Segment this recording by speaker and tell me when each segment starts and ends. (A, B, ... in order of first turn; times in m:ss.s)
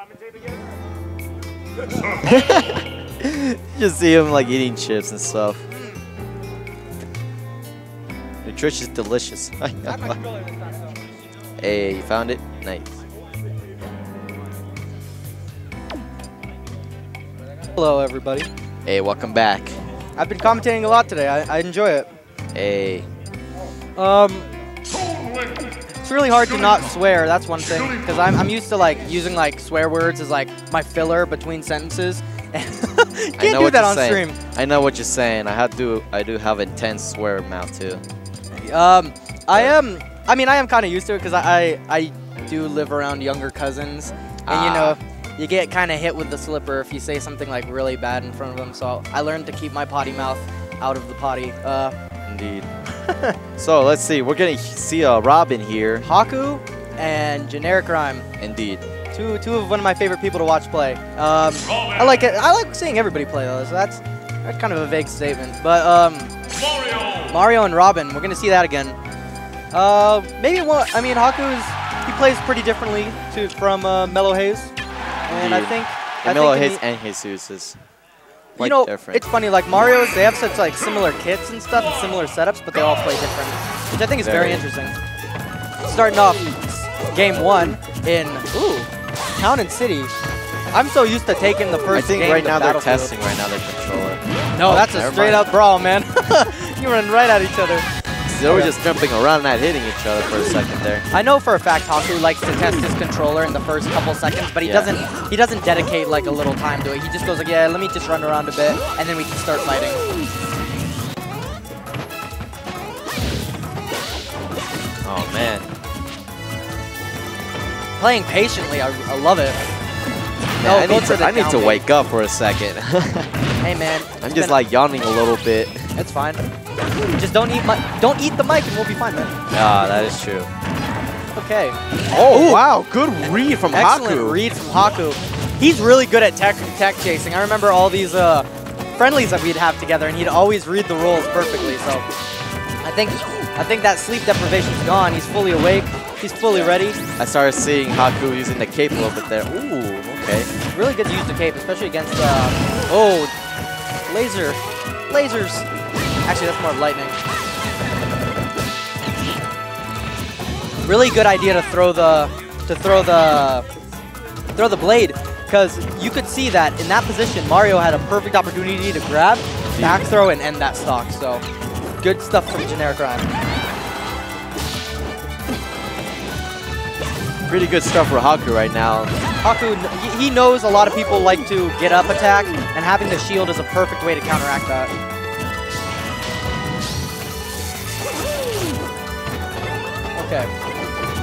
0:02.2-0:05.6 A
0:08.4-0:10.2 A
0:11.6-0:13.0 A
0:17.8-0:18.5 B
0:18.9-0:19.8 A
0:20.2-0:22.1 B
0:22.6-0:23.1 A
0:24.0-0:24.5 B
0:26.0-0:34.4 B
0:33.4-0:38.0 A
0:38.5-0:52.0 B
0:44.5-0:45.0 A
0:52.3-0:52.7 A
0:53.0-0:53.4 B
0:53.6-0:56.1 A
0:56.0-0:58.3 B
0:58.4-0:58.9 A
0:59.1-1:06.3 B
1:07.3-1:09.0 B
1:09.7-1:14.7 B
1:15.3-1:16.8 B
1:15.3-1:17.8 A
1:18.6-1:19.2 A
1:18.6-1:25.0 B
1:24.2-1:24.6 A
1:25.8-1:30.1 B
1:30.7-1:33.1 B
1:31.9-1:35.5 A
1:34.6-1:37.9 B
1:38.3-1:41.1 A
1:38.5-1:38.7 B
1:41.1-1:50.0 B
1:44.6-1:44.9 A
1:55.0-1:55.7 A
1:58.0-1:59.6 B
2:00.6-2:03.3 A
2:00.6-2:01.8 B
2:03.6-2:04.6 B
2:04.2-2:05.9 A
2:06.0-2:06.4 B
2:07.2-2:09.4 B
2:09.5-2:10.5 A
2:11.4-2:11.8 B
2:12.1-2:14.4 A
2:12.3-2:12.6 B
2:13.7-2:22.1 B
2:22.8-2:27.0 B
2:26.5-2:30.5 A
2:30.7-2:33.3 B
2:34.1-2:35.7 B
2:36.2-2:37.2 B
2:40.9-2:43.7 B
2:44.6-2:51.4 B
2:49.7-2:50.0 A
2:52.0-2:53.3 B
2:57.5-2:59.2 A
2:59.4-3:04.9 B
3:10.2-3:10.5 B